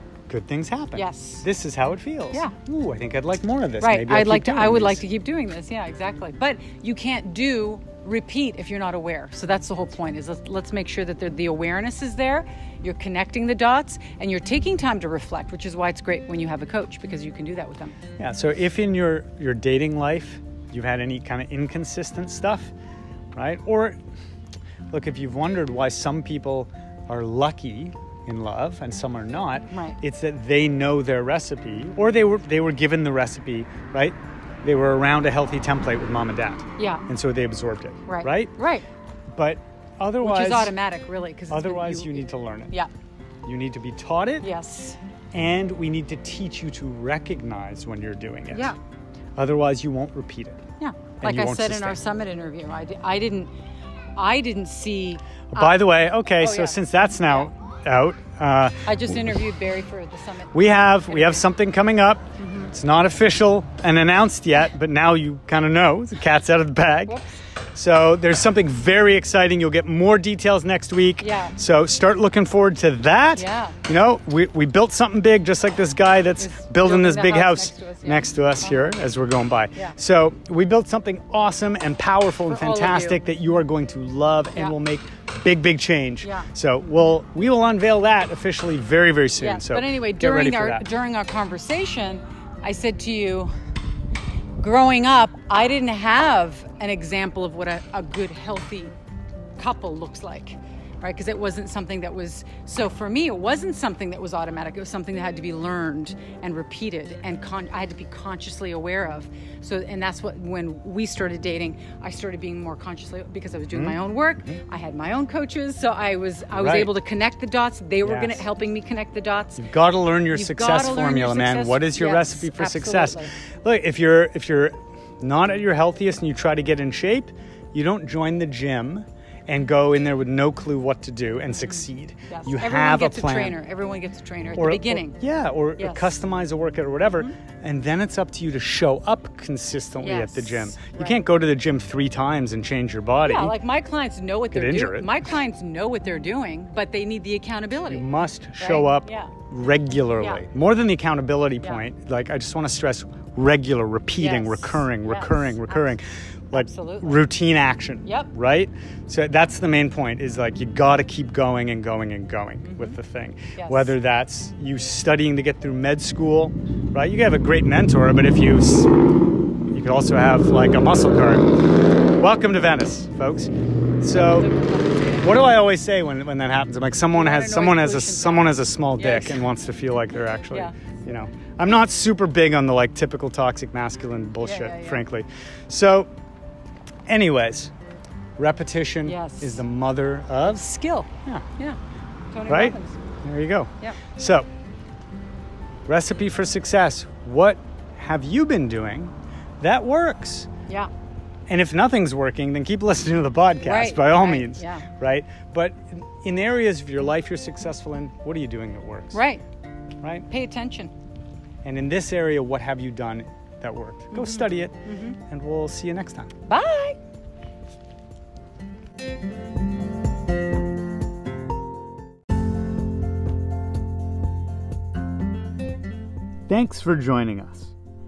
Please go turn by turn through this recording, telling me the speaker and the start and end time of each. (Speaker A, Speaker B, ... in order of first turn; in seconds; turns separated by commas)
Speaker A: 0.3-5.0, Speaker B: 0.9-1.5, Speaker B: 3.8-18.0, Speaker A: 18.2-22.7, Speaker A: 23.4-24.0, Speaker A: 24.9-38.5, Speaker B: 29.7-30.0, Speaker B: 36.8-37.0, Speaker B: 38.1-38.9, Speaker A: 39.4-40.8, Speaker B: 40.2-42.9, Speaker A: 41.5-42.8, Speaker A: 43.5-44.5, Speaker B: 44.4-45.0, Speaker A: 45.3-48.8, Speaker B: 48.5-48.8, Speaker A: 49.4-50.6, Speaker B: 50.8-53.5, Speaker A: 51.2-52.0, Speaker B: 54.2-57.5, Speaker A: 55.5-59.3, Speaker B: 58.9-61.5, Speaker A: 60.5-67.2, Speaker B: 62.4-62.7, Speaker B: 67.1-67.4, Speaker A: 67.7-90.9, Speaker B: 71.2-71.5, Speaker B: 73.3-73.8, Speaker B: 76.4-79.0, Speaker B: 82.5-83.2, Speaker B: 86.2-86.5, Speaker B: 89.4-93.5, Speaker B: 94.6-99.0, Speaker B: 99.6-119.6, Speaker A: 113.7-114.6, Speaker A: 116.5-117.0, Speaker A: 118.0-118.5, Speaker A: 119.6-133.6, Speaker B: 120.3-123.3, Speaker B: 131.7-135.2, Speaker A: 134.6-143.6, Speaker B: 135.8-136.2, Speaker B: 140.0-141.2, Speaker B: 143.2-149.3, Speaker A: 144.5-145.2, Speaker A: 147.9-168.9, Speaker B: 154.2-156.0, Speaker B: 156.5-157.2, Speaker B: 158.1-158.3, Speaker B: 162.6-163.0, Speaker B: 163.6-164.0, Speaker A: 169.7-171.5, Speaker A: 172.2-174.5, Speaker B: 174.1-175.6, Speaker A: 175.2-186.1, Speaker B: 177.1-179.4, Speaker B: 184.4-185.0, Speaker A: 187.1-187.7, Speaker A: 188.4-190.7, Speaker B: 189.0-189.6, Speaker B: 190.4-191.8, Speaker B: 192.3-193.0, Speaker A: 192.5-194.5, Speaker A: 195.9-200.5, Speaker A: 201.5-209.2, Speaker B: 203.6-204.9, Speaker B: 209.1-209.4, Speaker A: 210.0-210.3, Speaker B: 210.3-210.9, Speaker A: 211.6-216.3, Speaker B: 214.1-215.2, Speaker B: 216.5-217.0, Speaker A: 226.5-227.7